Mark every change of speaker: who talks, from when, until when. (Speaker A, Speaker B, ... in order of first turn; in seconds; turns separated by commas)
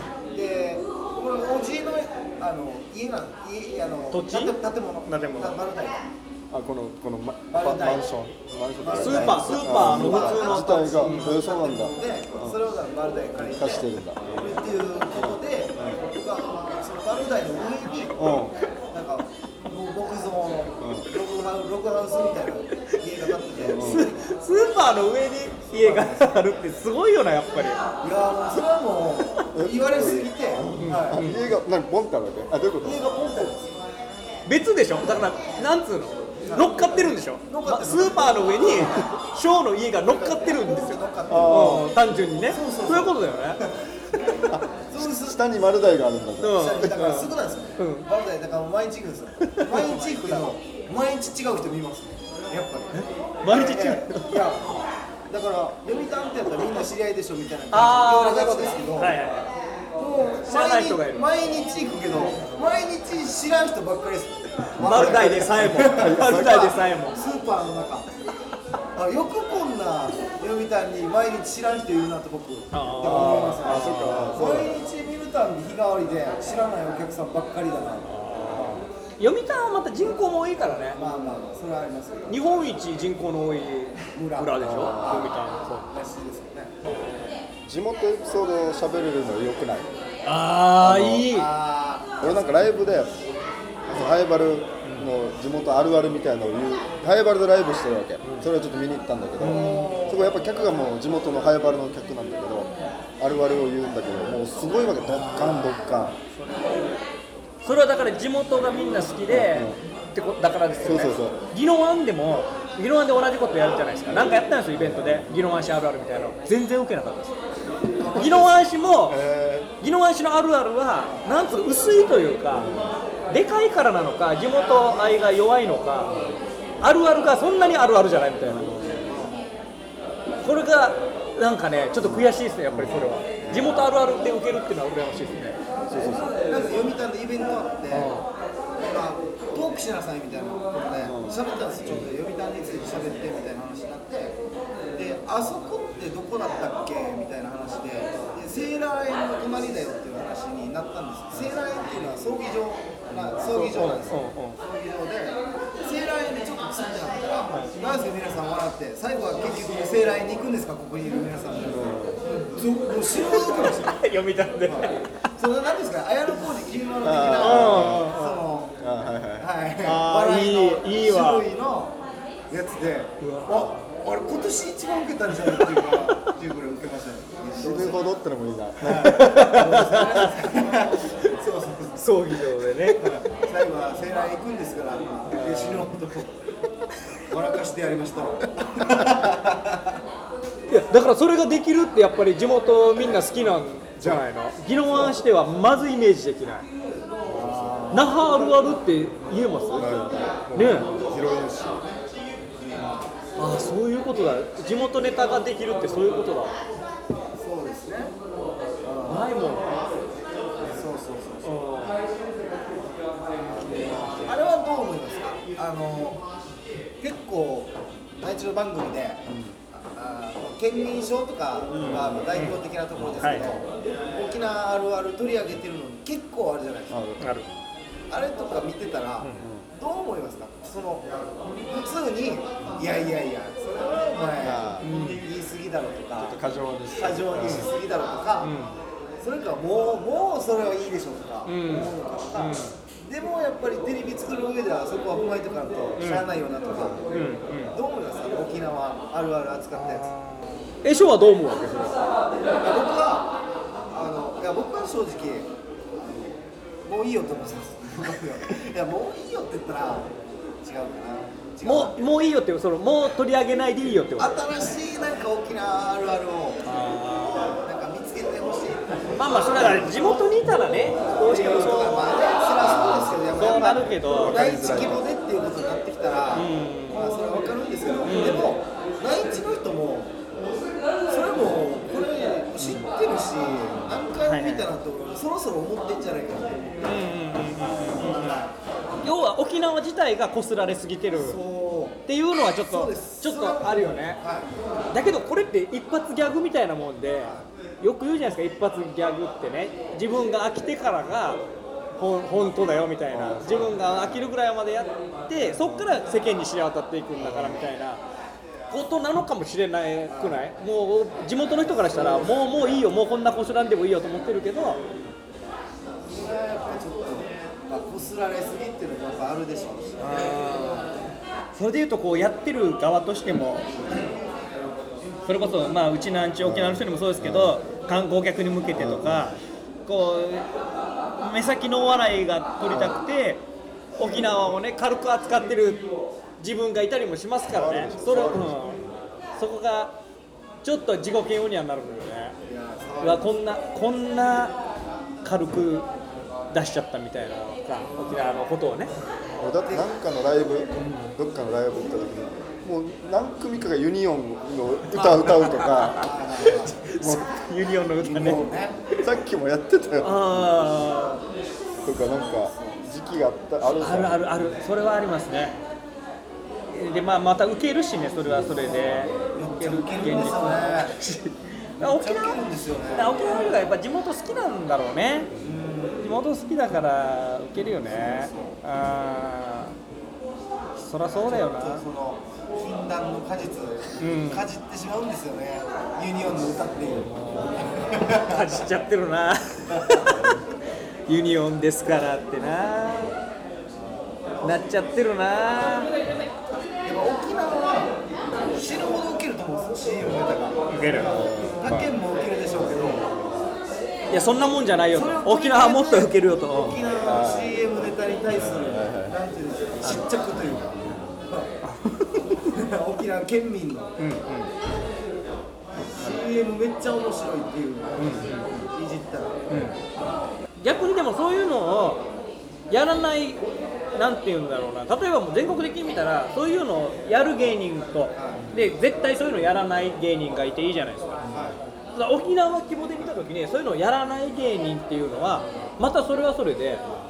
Speaker A: 0.3-6.1, Speaker B: 4.1-5.6, Speaker C: 6.5-12.6, Speaker A: 7.5-8.1, Speaker A: 8.8-18.3, Speaker B: 9.0-11.3, Speaker C: 13.4-14.6, Speaker C: 15.1-16.0, Speaker C: 18.2-18.6, Speaker A: 18.9-24.2, Speaker C: 20.8-21.1, Speaker C: 23.6-24.1, Speaker B: 23.8-27.8, Speaker A: 25.8-26.4, Speaker A: 28.0-31.3, Speaker C: 29.5-33.0, Speaker B: 30.6-31.5, Speaker A: 32.8-33.7, Speaker B: 34.5-43.6, Speaker A: 36.5-39.1, Speaker A: 40.0-41.9, Speaker C: 41.3-41.9, Speaker A: 42.4-45.4, Speaker C: 44.5-46.9, Speaker B: 46.4-48.1, Speaker A: 46.5-54.7, Speaker B: 49.5-50.5, Speaker B: 52.9-54.4, Speaker A: 55.3-59.2, Speaker B: 57.7-59.5, Speaker A: 60.0-68.1, Speaker B: 60.5-61.2, Speaker B: 64.8-67.2, Speaker C: 64.8-66.7, Speaker A: 69.0-78.8, Speaker B: 72.7-74.4, Speaker C: 73.0-74.8, Speaker B: 78.0-81.0, Speaker A: 81.0-82.6, Speaker B: 82.3-85.9, Speaker A: 84.1-85.3, Speaker C: 84.6-85.3, Speaker A: 85.9-86.8, Speaker C: 87.7-89.9, Speaker B: 90.2-91.5, Speaker C: 90.8-91.3, Speaker A: 91.3-92.5, Speaker C: 92.2-93.2, Speaker C: 93.9-106.2, Speaker B: 94.8-95.1, Speaker B: 98.2-98.5, Speaker B: 99.4-100.0, Speaker A: 99.4-100.3, Speaker B: 106.4-106.9, Speaker B: 107.6-117.3, Speaker C: 109.3-109.8, Speaker C: 110.8-111.4, Speaker C: 114.8-115.3, Speaker A: 118.0-118.6, Speaker B: 118.2-119.2, Speaker C: 119.1-119.7, Speaker B: 119.8-122.7, Speaker C: 122.6-122.9, Speaker B: 123.3-126.1, Speaker B: 126.8-128.7, Speaker C: 128.5-129.1, Speaker A: 129.0-129.5, Speaker B: 130.4-135.6, Speaker C: 132.0-133.9, Speaker C: 135.9-136.3, Speaker A: 136.3-138.1, Speaker B: 137.9-138.3, Speaker A: 138.8-144.4, Speaker C: 141.0-142.1, Speaker A: 144.9-164.0, Speaker C: 153.1-154.0, Speaker B: 153.5-154.6, Speaker C: 161.6-162.2, Speaker B: 163.2-165.0, Speaker A: 164.7-168.8, Speaker C: 167.0-168.1, Speaker B: 167.4-168.4, Speaker C: 168.8-169.5, Speaker A: 169.4-172.0, Speaker B: 169.8-171.5, Speaker A: 172.5-178.1, Speaker B: 173.2-173.8, Speaker C: 177.5-179.4, Speaker A: 178.8-182.2, Speaker B: 178.9-180.4, Speaker B: 182.0-183.1, Speaker A: 182.9-186.3, Speaker B: 185.3-185.9, Speaker A: 187.2-190.0, Speaker B: 190.7-196.7, Speaker A: 197.3-198.1, Speaker C: 197.3-197.7, Speaker B: 197.9-200.9, Speaker C: 199.7-201.9, Speaker A: 202.6-203.1, Speaker B: 203.4-206.6, Speaker A: 207.4-208.1, Speaker A: 208.8-209.3, Speaker B: 209.1-209.8, Speaker A: 210.7-211.7, Speaker B: 211.4-212.0, Speaker A: 213.6-216.2, Speaker A: 217.0-227.0, Speaker C: 219.3-219.6, Speaker B: 221.7-222.6, Speaker C: 221.8-222.3, Speaker B: 223.2-223.5, Speaker C: 226.9-227.4, Speaker B: 227.2-227.5, Speaker A: 228.1-231.1, Speaker B: 229.2-229.5, Speaker C: 229.4-229.7, Speaker A: 231.6-236.4, Speaker C: 234.4-234.9, Speaker B: 234.8-235.2, Speaker C: 236.2-237.7, Speaker A: 236.9-238.6, Speaker B: 237.4-237.7, Speaker B: 238.4-238.8, Speaker A: 239.2-250.1, Speaker B: 241.5-242.7, Speaker B: 246.0-246.3, Speaker C: 246.8-247.0, Speaker B: 247.1-247.8, Speaker B: 249.7-252.0, Speaker A: 252.6-253.4, Speaker A: 253.9-262.0, Speaker B: 261.6-264.3, Speaker A: 264.2-266.7, Speaker B: 266.6-267.6, Speaker A: 267.3-270.4, Speaker B: 269.1-272.1, Speaker A: 270.9-280.2, Speaker C: 272.6-273.2, Speaker B: 273.3-274.4, Speaker C: 274.1-275.1, Speaker B: 276.3-277.2, Speaker B: 278.1-278.5, Speaker A: 281.1-287.1, Speaker C: 283.4-284.0, Speaker B: 284.2-284.7, Speaker B: 286.8-288.4, Speaker A: 287.9-288.6, Speaker B: 289.0-291.4, Speaker A: 291.1-292.0, Speaker B: 292.1-294.2, Speaker A: 292.6-294.5, Speaker B: 294.9-301.4, Speaker B: 302.0-308.0, Speaker C: 303.1-304.3, Speaker C: 307.2-307.7, Speaker B: 308.7-314.8, Speaker A: 310.1-310.4, Speaker A: 311.8-312.3, Speaker A: 316.1-320.4, Speaker B: 320.0-320.9, Speaker B: 321.5-323.7, Speaker B: 325.3-330.5, Speaker C: 326.4-327.6, Speaker C: 328.7-329.4, Speaker B: 331.2-333.4, Speaker C: 332.7-333.0, Speaker B: 334.0-335.9, Speaker B: 336.4-338.8, Speaker C: 337.5-338.8, Speaker B: 339.4-340.0, Speaker B: 340.6-342.4, Speaker A: 342.4-343.3, Speaker B: 343.0-344.6, Speaker B: 345.2-345.9, Speaker B: 346.5-348.9, Speaker A: 347.8-348.4, Speaker C: 349.4-356.0, Speaker A: 349.6-349.9, Speaker B: 350.8-351.1, Speaker B: 354.9-359.0, Speaker A: 356.0-356.8, Speaker C: 357.0-357.3, Speaker A: 358.0-358.8, Speaker C: 359.0-360.5, Speaker B: 360.0-361.2, Speaker C: 361.8-364.2, Speaker A: 361.9-362.9, Speaker B: 363.8-365.6, Speaker B: 366.7-372.4, Speaker C: 368.3-369.1, Speaker A: 369.3-371.0, Speaker A: 371.8-373.3, Speaker B: 372.9-375.3, Speaker A: 375.4-376.1, Speaker B: 376.0-379.7, Speaker A: 377.8-378.6, Speaker B: 380.8-381.8, Speaker A: 381.1-388.6, Speaker B: 384.0-384.5, Speaker B: 388.1-390.2, Speaker A: 389.7-390.2, Speaker C: 390.1-390.4, Speaker B: 391.1-393.2, Speaker B: 394.4-395.9, Speaker A: 396.9-397.9, Speaker A: 398.5-403.0, Speaker B: 400.7-401.1, Speaker C: 401.1-401.9, Speaker C: 402.6-403.5, Speaker B: 404.1-406.8, Speaker A: 404.9-411.5, Speaker C: 407.0-407.6, Speaker C: 408.3-409.2, Speaker B: 411.6-412.5, Speaker A: 412.5-414.0, Speaker B: 414.0-414.5, Speaker A: 415.9-419.4, Speaker B: 418.0-418.5, Speaker B: 419.5-419.8, Speaker B: 420.6-422.0, Speaker B: 422.7-431.3, Speaker A: 428.1-428.5, Speaker C: 431.3-431.6, Speaker A: 431.3-431.6, Speaker B: 431.9-436.8